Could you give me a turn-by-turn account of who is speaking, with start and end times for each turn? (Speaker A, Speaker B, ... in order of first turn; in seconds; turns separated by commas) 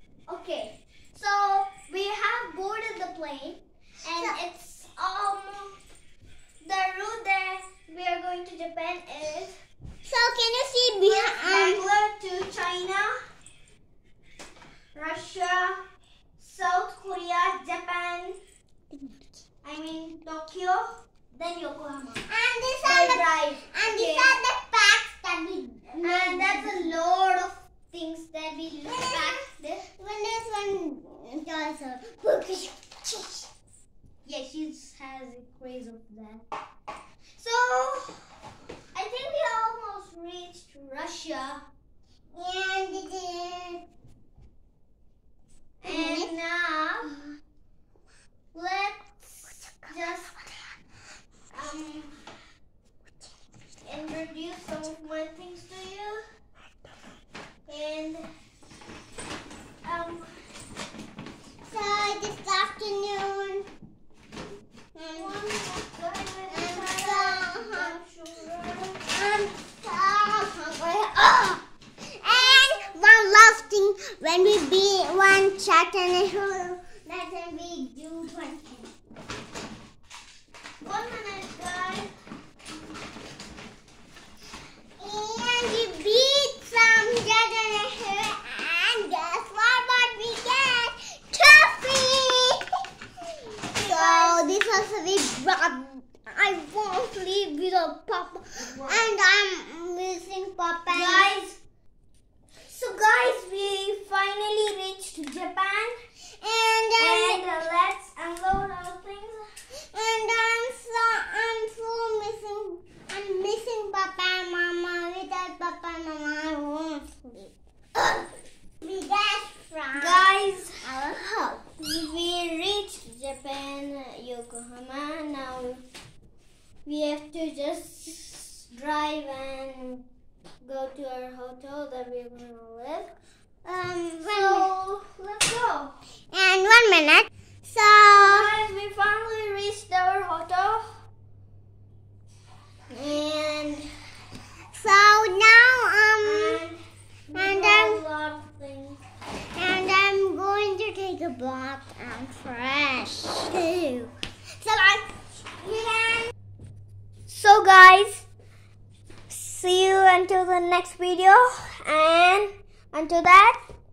Speaker A: 0.3-5.8, Speaker A: 6.6-9.5, Speaker B: 10.0-11.8, Speaker A: 11.1-13.1, Speaker A: 14.9-15.8, Speaker A: 16.4-18.4, Speaker B: 18.9-19.2, Speaker A: 19.6-22.3, Speaker B: 22.3-26.9, Speaker A: 22.8-24.4, Speaker A: 26.0-29.9, Speaker B: 28.9-29.3, Speaker B: 30.0-33.5, Speaker A: 34.2-36.4, Speaker A: 37.4-38.2, Speaker A: 38.9-41.6, Speaker B: 42.3-43.8, Speaker A: 45.8-47.1, Speaker B: 45.9-46.3, Speaker A: 48.5-50.3, Speaker A: 51.5-52.2, Speaker A: 53.8-56.2, Speaker A: 57.7-58.2, Speaker A: 59.8-60.3, Speaker B: 61.6-63.7, Speaker B: 64.9-65.3, Speaker A: 65.1-69.1, Speaker B: 66.5-68.0, Speaker B: 69.1-71.6, Speaker B: 72.2-78.9, Speaker A: 72.3-73.7, Speaker A: 80.8-82.1, Speaker B: 85.0-92.7, Speaker A: 93.7-94.4, Speaker B: 93.8-101.3, Speaker A: 98.6-99.1, Speaker A: 100.9-101.6, Speaker A: 102.7-105.9, Speaker B: 106.4-107.4, Speaker A: 107.0-109.4, Speaker B: 109.9-118.2, Speaker B: 118.8-120.2, Speaker A: 119.9-120.8, Speaker B: 120.8-121.6, Speaker A: 121.8-125.8, Speaker A: 126.8-130.0, Speaker A: 130.6-133.1, Speaker B: 133.6-134.7, Speaker A: 134.2-135.9, Speaker B: 136.3-138.5, Speaker A: 138.2-141.0, Speaker A: 142.9-143.9, Speaker B: 144.7-146.6, Speaker A: 146.2-149.0, Speaker B: 147.3-148.0, Speaker B: 149.5-156.3, Speaker A: 157.3-158.2, Speaker A: 159.3-163.6